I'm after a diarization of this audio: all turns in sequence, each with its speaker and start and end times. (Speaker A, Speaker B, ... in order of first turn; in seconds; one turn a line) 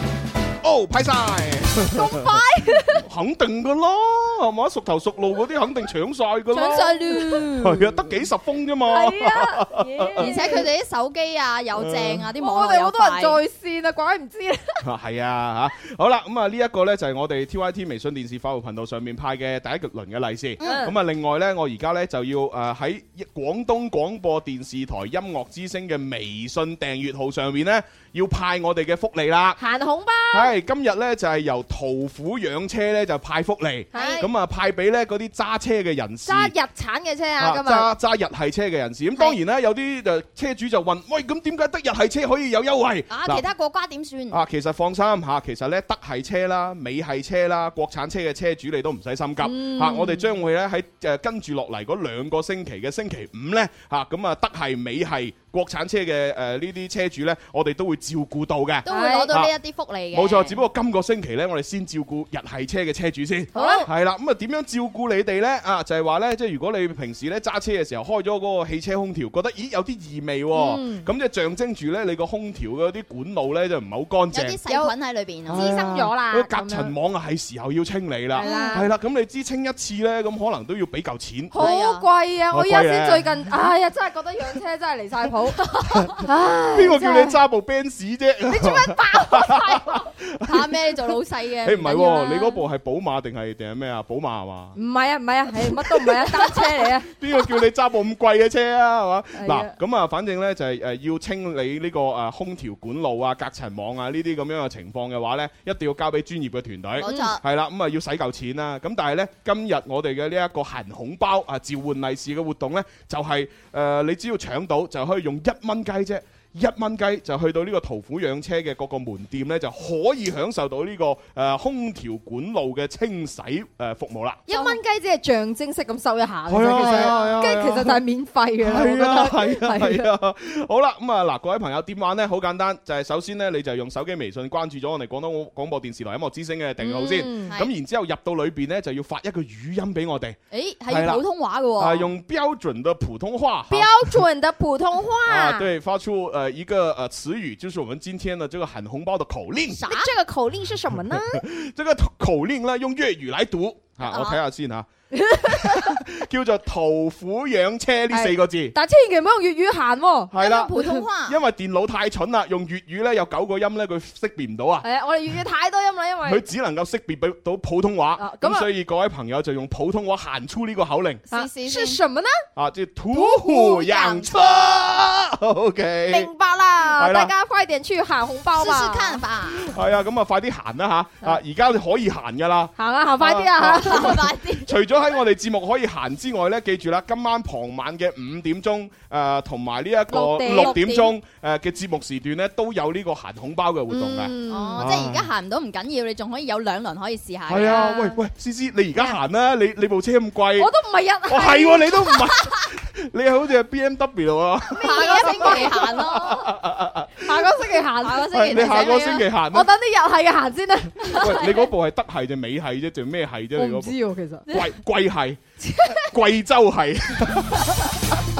Speaker A: 0.6-2.4
Speaker B: 1.9-3.0
Speaker A: 3.0-7.0
Speaker C: 6.5-7.9
Speaker B: 6.6-7.5
Speaker A: 7.5-10.4
Speaker B: 8.9-10.6
Speaker C: 10.2-13.4
Speaker A: 11.8-12.2
Speaker B: 12.4-14.8
Speaker A: 14.8-29.6
Speaker C: 20.6-20.9
Speaker B: 20.6-20.9
Speaker B: 29.6-30.5
Speaker A: 30.3-36.5
Speaker B: 33.9-34.3
Speaker C: 33.9-34.2
Speaker B: 36.3-37.9
Speaker A: 37.4-43.5
Speaker C: 43.1-44.4
Speaker A: 44.3-59.5
Speaker B: 49.4-50.3
Speaker C: 58.9-60.6
Speaker B: 58.9-59.3
Speaker A: 60.1-74.6
Speaker B: 63.5-63.9
Speaker C: 63.5-63.9
Speaker B: 70.5-71.1
Speaker C: 74.3-75.6
Speaker A: 75.5-81.6
Speaker B: 75.5-76.9
Speaker B: 78.3-78.9
Speaker C: 78.4-78.8
Speaker B: 81.5-87.4
Speaker C: 81.6-82.1
Speaker A: 82.5-83.4
Speaker A: 86.7-90.8
Speaker B: 88.5-90.0
Speaker C: 90.5-92.6
Speaker A: 91.6-94.8
Speaker B: 94.8-97.1
Speaker A: 95.9-96.3
Speaker A: 97.1-124.4
Speaker B: 99.3-99.7
Speaker C: 107.0-107.4
Speaker B: 107.0-107.3
Speaker B: 124.5-130.1
Speaker C: 124.5-124.8
Speaker A: 126.5-128.0
Speaker C: 126.8-127.3
Speaker A: 128.6-140.4
Speaker B: 136.8-137.5
Speaker C: 140.5-142.1
Speaker A: 140.9-141.2
Speaker A: 141.8-144.2
Speaker B: 143.7-145.7
Speaker A: 145.3-149.8
Speaker C: 149.8-150.1
Speaker B: 149.9-151.4
Speaker A: 151.1-154.9
Speaker C: 154.0-154.4
Speaker B: 155.1-155.9
Speaker A: 155.4-158.8
Speaker B: 158.1-161.0
Speaker A: 160.3-164.8
Speaker C: 160.4-161.4
Speaker B: 164.8-166.4
Speaker A: 166.2-171.2
Speaker B: 168.2-168.7
Speaker C: 171.3-172.0
Speaker B: 171.3-172.4
Speaker A: 172.6-176.3
Speaker B: 173.1-173.8
Speaker C: 173.8-174.3
Speaker B: 176.1-179.2
Speaker A: 176.9-177.3
Speaker C: 178.6-179.7
Speaker A: 179.5-195.3
Speaker B: 182.8-184.2
Speaker C: 183.8-184.7
Speaker B: 190.1-191.1
Speaker C: 190.5-191.1
Speaker B: 193.9-194.8
Speaker C: 194.5-197.9
Speaker A: 197.5-200.7
Speaker B: 197.6-198.1
Speaker B: 200.6-202.3
Speaker A: 201.3-207.5
Speaker B: 204.7-205.9
Speaker C: 204.8-206.5
Speaker B: 207.2-211.4
Speaker C: 208.0-209.3
Speaker A: 208.3-209.7
Speaker C: 211.1-211.5
Speaker A: 211.1-213.9
Speaker B: 213.6-214.5
Speaker A: 214.5-217.8
Speaker B: 215.6-215.9